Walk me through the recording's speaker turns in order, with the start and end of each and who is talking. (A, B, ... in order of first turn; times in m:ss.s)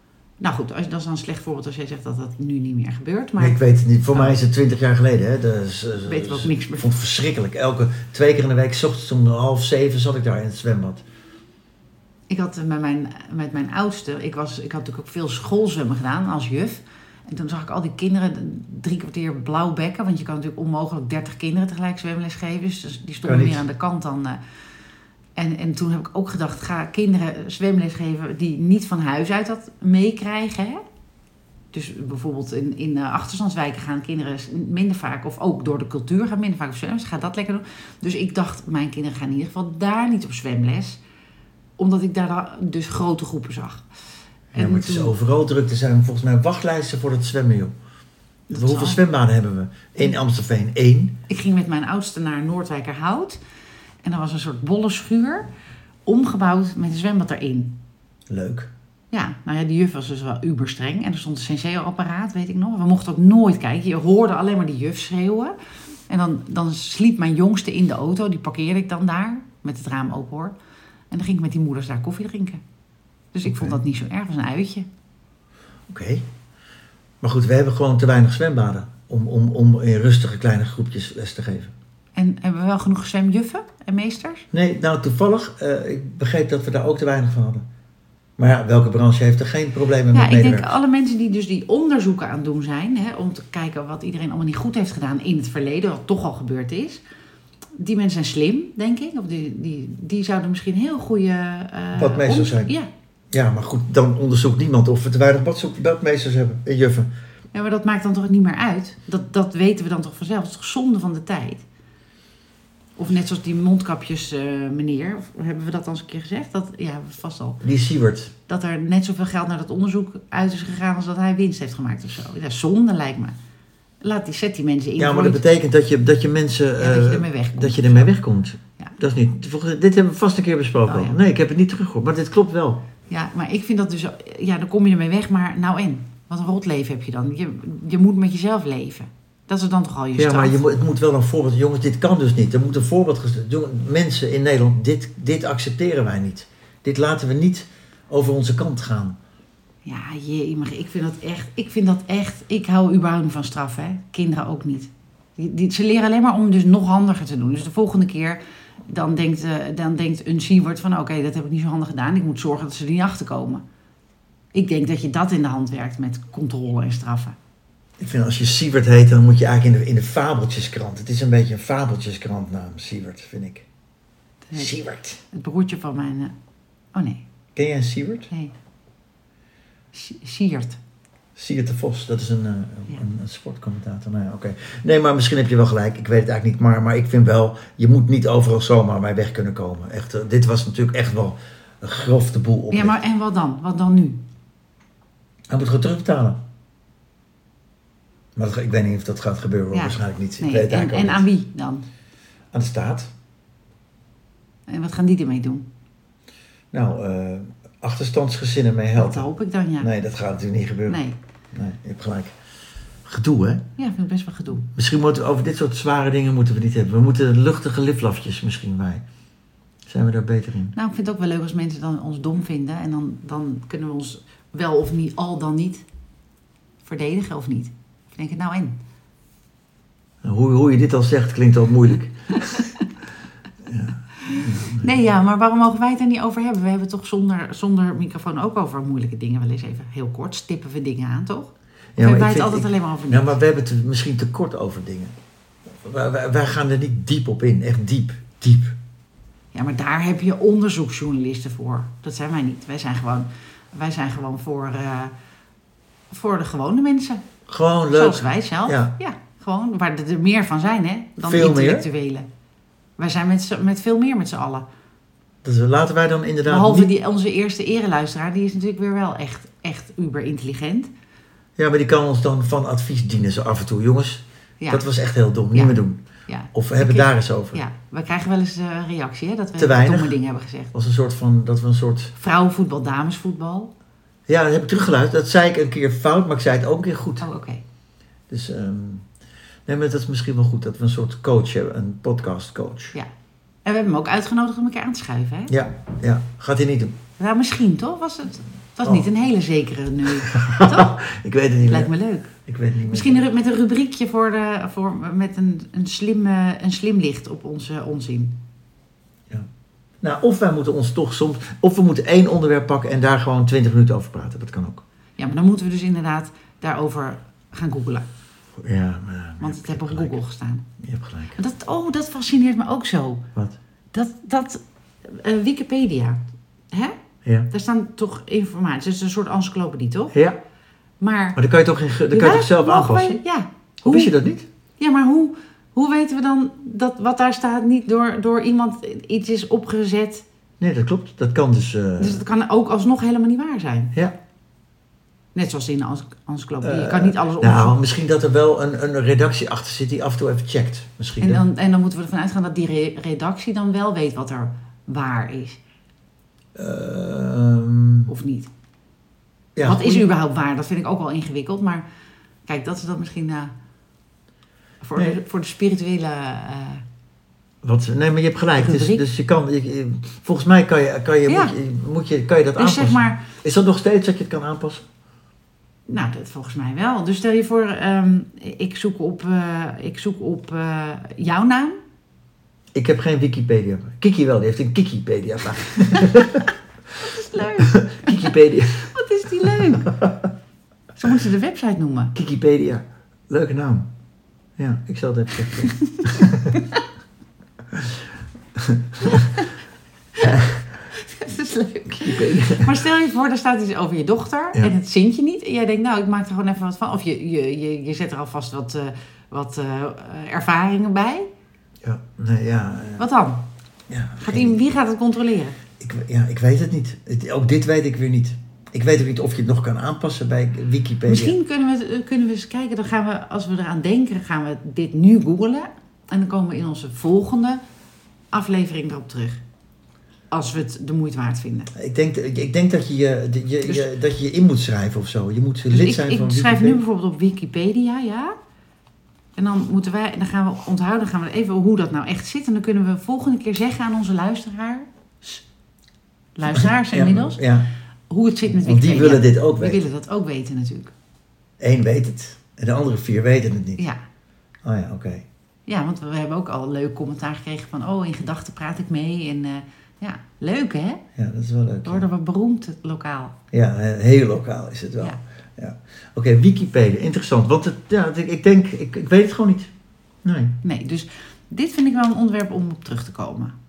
0:00.4-0:03.6 A
0:03.4-0:11.0 B
0:06.1-0:06.9 A
0:12.3-0:24.4 A
0:23.2-0:23.7 B
0:25.4-0:30.8 A
0:31.7-0:41.0 A
0:41.8-0:43.8 A
0:44.5-0:47.7 B
0:44.5-0:45.2 A
0:48.5-0:49.0 A
0:48.5-0:51.2 B
0:51.3-0:53.4 A
0:54.0-0:55.5 A
0:56.1-0:57.8 A
0:58.3-0:58.7 B
0:59.1-1:05.6 A
1:06.1-1:10.6 A
1:11.1-1:12.6 A
1:13.3-1:14.9 A
1:13.4-1:13.8 B
1:15.9-1:16.3 B
1:17.2-1:21.7 B
1:22.2-1:24.5 A
1:24.5-1:27.6 B
1:28.4-1:30.8 B
1:30.1-1:37.0 A
1:37.8-1:42.9 A
1:41.9-1:42.8 B
1:43.3-1:47.1 B
1:47.5-1:51.6 A
1:53.0-1:57.6 A
1:57.6-1:58.3 B
1:58.5-2:03.4 A
2:04.0-2:05.4 A
2:05.0-2:12.8 B
2:06.8-2:08.1 A
2:10.9-2:11.2 A
2:13.1-2:20.6 A
2:20.2-2:29.2 B
2:29.8-2:43.6 A
2:44.5-2:47.4 A
2:48.0-2:53.7 B
2:54.5-2:54.7 A
2:54.5-2:55.2 B
2:55.3-2:56.3 A
2:56.9-2:57.2 A
2:57.6-2:58.3 B
2:59.9-3:00.8 A
3:01.4-3:13.0 B
3:12.7-3:14.2 A
3:15.5-3:16.4 B
3:18.4-3:21.3 B
3:19.7-3:21.9 A
3:22.5-3:23.1 B
3:24.7-3:25.7 A
3:26.7-3:29.3 B
3:29.0-3:29.9 A
3:29.8-3:31.0 B
3:30.9-3:31.2 A
3:31.5-3:32.4 B
3:33.1-3:33.6 B
3:33.8-3:34.7 A
3:34.7-3:39.0 B
3:39.9-3:40.8 B
3:40.8-3:45.8 A
3:46.8-3:48.8 A
3:50.2-3:52.6 B
3:52.4-3:52.9 A
3:53.6-3:55.0 B
3:54.2-4:03.4 A
4:02.0-4:05.2 B
4:05.7-4:08.8 B
4:09.5-4:15.1 A
4:16.1-4:17.2 A
4:17.5-4:19.0 B
4:17.9-4:22.3 A
4:21.2-4:21.9 B
4:23.0-4:24.7 A
4:25.4-4:26.9 B
4:26.5-4:30.9 A
4:31.6-4:36.0 B
4:34.6-4:34.9 A
4:35.5-4:40.7 A
4:36.5-4:37.6 B
4:39.6-4:40.2 B
4:40.7-4:42.1 B
4:42.2-4:43.7 A
4:44.3-4:47.3 B
4:47.2-4:47.6 A
4:48.3-4:49.0 B
4:49.7-4:53.0 B
4:53.6-4:55.6 A
4:55.5-4:57.0 B
4:57.2-5:01.0 A
5:00.2-5:01.9 B
5:01.6-5:02.3 A
5:02.5-5:03.3 B
5:02.9-5:08.4 A
5:10.0-5:14.8 B
5:15.2-5:18.1 A
5:18.6-5:20.2 B
5:19.4-5:20.6 A
5:20.8-5:21.4 B
5:21.3-5:23.3 A
5:23.9-5:27.0 A
5:27.2-5:27.5 B
5:27.5-5:30.2 A
5:30.1-5:30.4 B
5:31.0-5:31.4 A
5:31.4-5:33.2 B
5:32.1-5:34.1 A
5:33.8-5:34.5 B
5:34.8-5:40.2 A
5:40.6-5:42.2 B
5:42.0-5:43.9 A
5:45.4-5:47.8 A
5:46.6-5:51.4 B
5:51.2-5:55.6 A
5:56.6-5:58.1 B
5:58.1-5:58.5 A
5:59.6-6:00.1 B
5:59.6-6:01.8 A
6:02.5-6:03.5 A
6:04.8-6:06.8 A
6:07.6-6:14.9 B
6:08.6-6:09.0 A
6:11.3-6:11.6 A
6:12.6-6:13.3 A
6:15.9-6:21.8 A
6:22.7-6:26.5 B
6:27.0-6:30.0 A
6:27.6-6:29.0 B
6:29.6-6:30.3 B
6:31.0-6:32.2 A
6:32.2-6:33.9 B
6:34.6-6:36.6 B
6:35.5-6:36.0 A
6:36.6-6:36.8 A
6:37.7-6:38.0 B
6:38.6-6:39.2 B
6:39.0-6:39.5 A
6:40.2-6:51.3 A
6:40.3-6:40.6 B
6:41.9-6:42.8 B
6:51.8-6:53.1 B
6:53.0-6:53.4 A
6:53.9-6:54.7 B
6:54.2-6:55.6 A
6:55.8-7:01.4 B
7:01.0-7:07.6 A
7:08.3-7:09.4 A
7:10.3-7:11.7 A
7:11.7-7:16.8 B
7:13.6-7:13.9 A
7:15.7-7:18.4 A
7:19.4-7:25.4 A
7:26.4-7:27.4 A
7:26.5-7:27.7 B
7:28.1-7:30.9 A
7:28.5-7:29.8 B
7:31.6-7:33.8 B
7:34.6-7:35.3 B
7:35.7-7:41.0 A
7:41.2-7:42.1 B
7:41.8-7:43.4 A
7:43.5-7:49.7 B
7:50.2-7:50.6 B
7:50.6-7:53.5 A